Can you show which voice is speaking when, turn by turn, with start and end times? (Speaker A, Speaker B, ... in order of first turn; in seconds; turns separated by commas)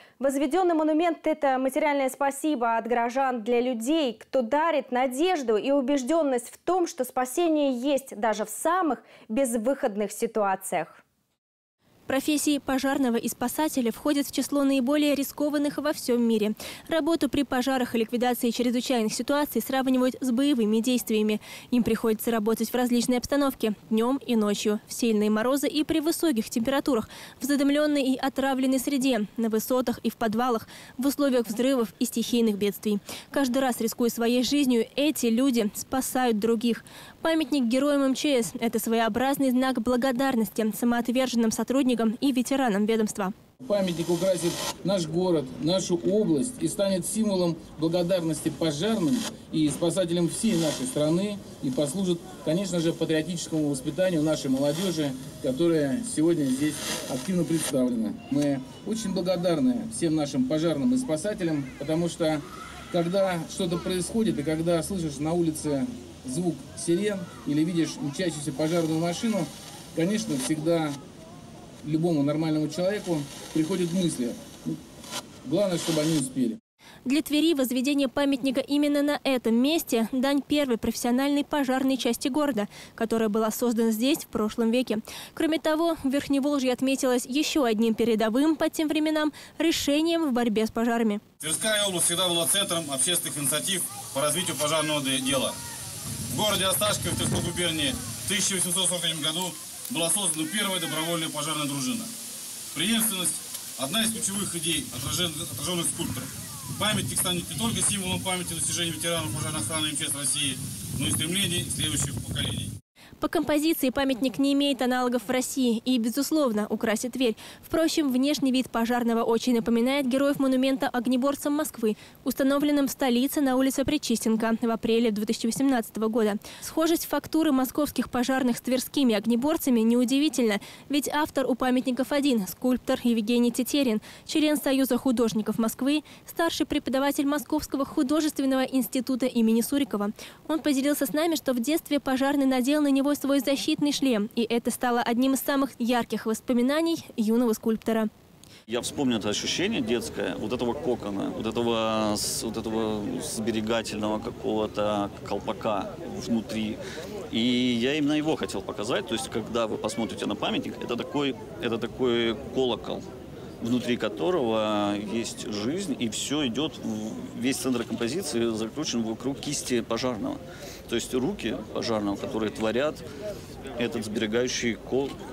Speaker A: 0.2-11.0, Speaker B: 12.1-43.3, Speaker C: 43.6-71.0, Speaker C: 71.8-74.8, Speaker C: 75.4-76.6, Speaker B: 77.0-91.2, Speaker D: 91.4-95.6, Speaker D: 96.3-102.1, Speaker D: 102.7-112.8, Speaker B: 113.2-148.1, Speaker E: 148.7-156.8, Speaker E: 157.3-163.1, Speaker E: 163.6-173.1, Speaker E: 173.8-175.2